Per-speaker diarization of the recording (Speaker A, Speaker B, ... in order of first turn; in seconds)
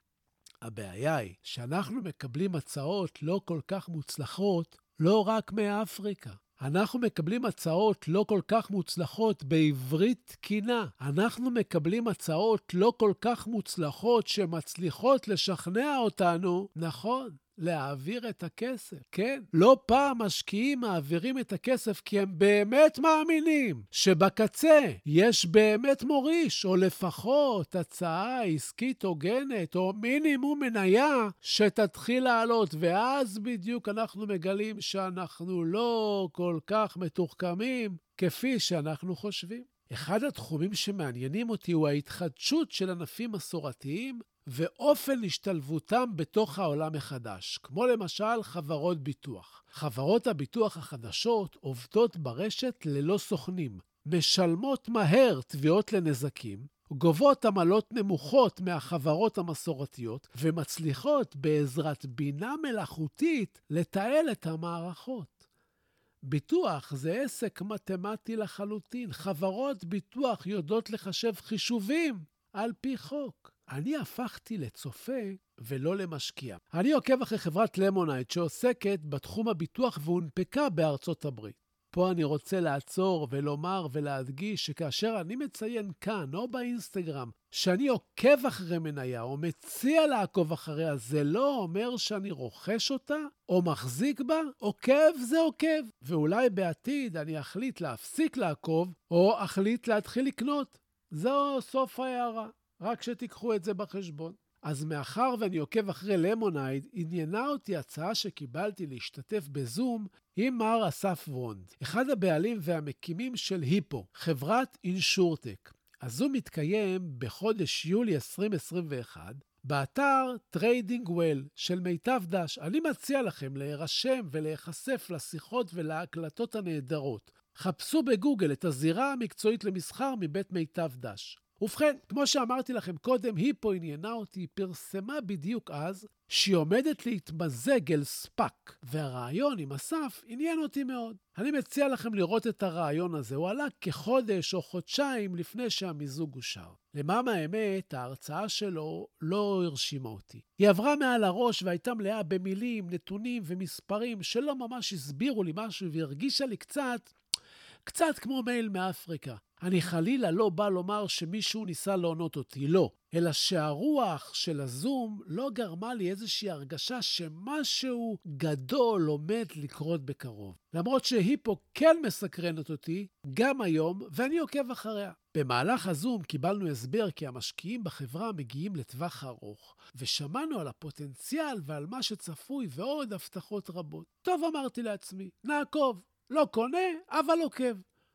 Speaker A: 0.6-65.5, 66.2-157.1, 157.8-187.8